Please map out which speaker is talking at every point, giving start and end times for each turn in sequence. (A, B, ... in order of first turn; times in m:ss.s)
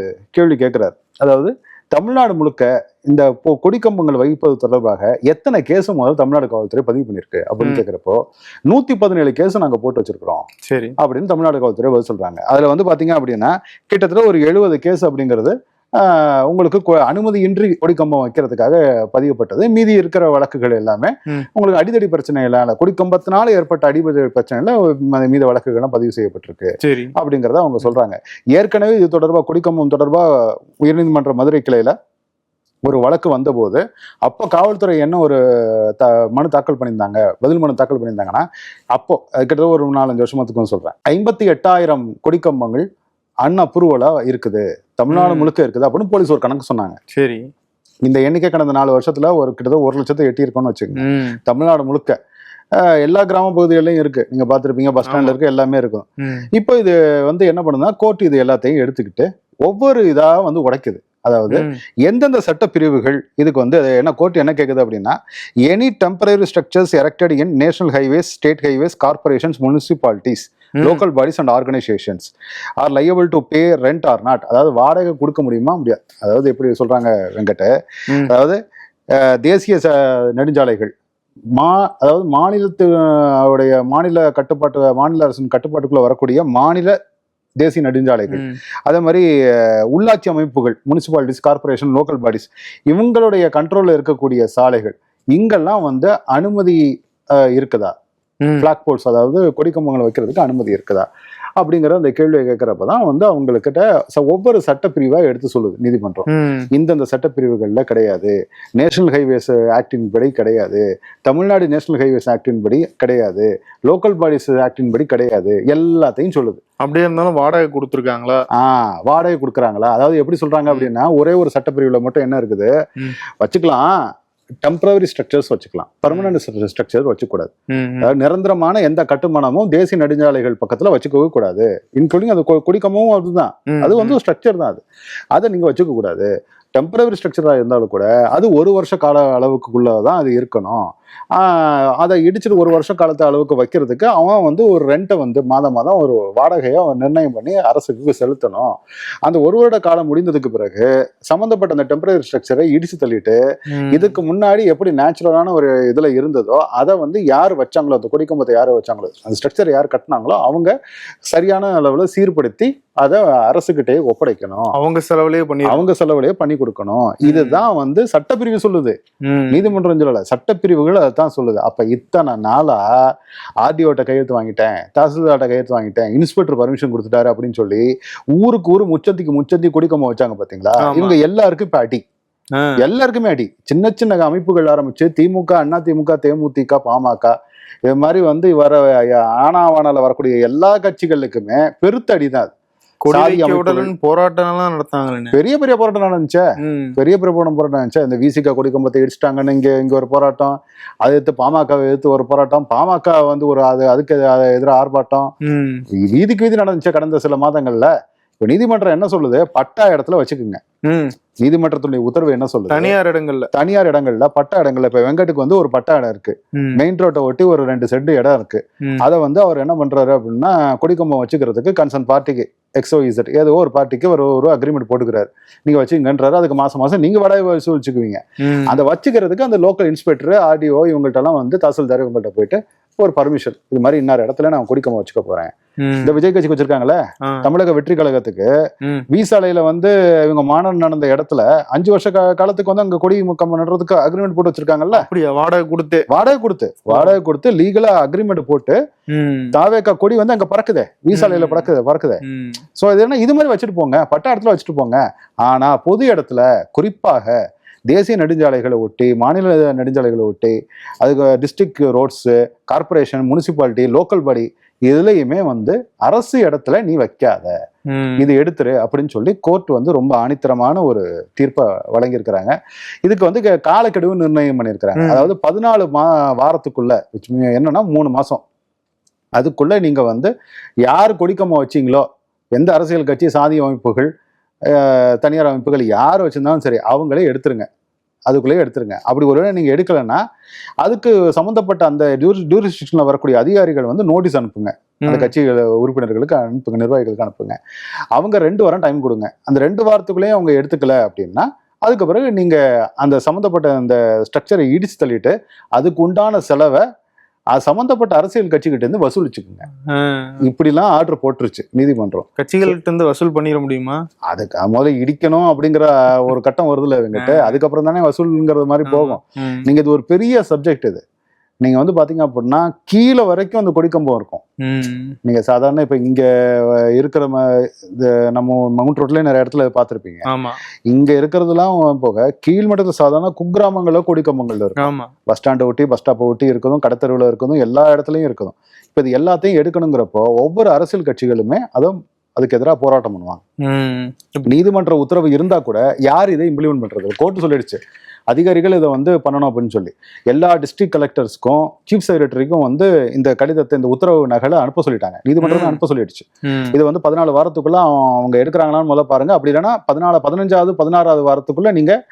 0:00.3-0:10.4 A
0:10.7-0:11.0 B
0:11.0-0:30.2 A
0:26.8-0:27.1 B
0:30.8-0:31.9 A
0:32.8-0:42.8 A
0:43.4-0:47.0 A
0:45.1-0:45.5 B
0:47.1-0:47.4 B
0:48.0-0:52.2 A
0:51.0-0:51.4 B
0:52.8-1:17.7 A
0:55.1-0:55.4 B
0:56.2-0:56.5 B
1:01.5-1:01.8 B
1:18.2-1:18.6 A
1:19.1-1:20.9 A
1:21.6-1:27.0 A
1:27.6-1:36.8 A
1:28.3-1:28.6 B
1:37.4-1:37.9 A
1:38.6-1:41.1 A
1:41.6-1:56.6 A
1:46.3-1:46.7 B
1:56.8-1:58.4 B
1:58.5-2:02.7 A
2:03.4-2:03.9 A
2:04.6-2:07.5 A
2:06.1-2:06.3 B
2:07.7-2:08.1 B
2:08.0-2:14.8 A
2:13.7-2:14.2 B
2:15.3-2:28.7 A
2:29.2-2:33.4 A
2:33.7-2:34.2 B
2:33.9-2:40.7 A
2:41.3-2:44.7 A
2:44.7-2:45.8 B
2:45.6-2:49.0 A
2:47.2-2:47.6 B
2:49.3-2:49.7 B
2:49.5-2:52.8 A
2:53.6-3:02.0 A
3:00.8-3:01.2 B
3:02.8-3:07.3 A
3:07.9-3:12.5 A
3:13.0-3:15.4 B
3:13.1-3:13.9 A
3:15.3-3:16.4 A
3:16.6-3:17.0 B
3:17.0-3:25.3 A
3:25.4-3:25.8 B
3:25.9-3:27.9 A
3:28.4-3:30.6 A
3:30.9-3:31.1 B
3:31.4-3:32.9 A
3:32.7-3:33.5 B
3:33.5-3:55.5 A
3:36.6-3:36.8 B
3:48.4-3:48.8 B
3:55.8-3:56.2 B
3:56.0-3:58.5 A
3:59.1-4:05.1 A
4:04.9-4:06.1 B
4:06.1-4:08.8 A
4:06.9-4:07.2 B
4:09.1-4:09.6 B
4:09.5-4:12.2 A
4:11.1-4:11.7 B
4:12.2-4:12.6 B
4:12.8-4:17.3 A
4:17.9-4:27.5 A
4:27.9-4:28.3 B
4:28.2-4:38.4 A
4:35.0-4:35.3 B
4:39.4-4:40.3 A
4:40.8-4:44.1 A
4:44.7-4:47.7 A
4:48.3-4:50.2 A
4:50.8-4:57.6 A
4:55.0-4:55.3 B
4:58.2-5:06.8 A
5:07.5-5:09.7 A
5:10.0-5:10.4 B
5:10.4-5:12.7 A
5:12.4-5:14.0 B
5:14.3-5:21.0 A
5:17.2-5:17.6 B
5:18.9-5:19.7 B
5:21.6-5:24.4 A
5:24.6-5:25.2 B
5:25.2-5:30.2 A
5:30.3-5:30.6 B
5:30.9-5:43.4 A
5:34.8-5:35.1 B
5:43.6-5:44.5 B
5:44.4-5:47.8 A
5:48.3-6:01.9 A
5:55.4-5:55.8 B
5:56.5-5:56.8 B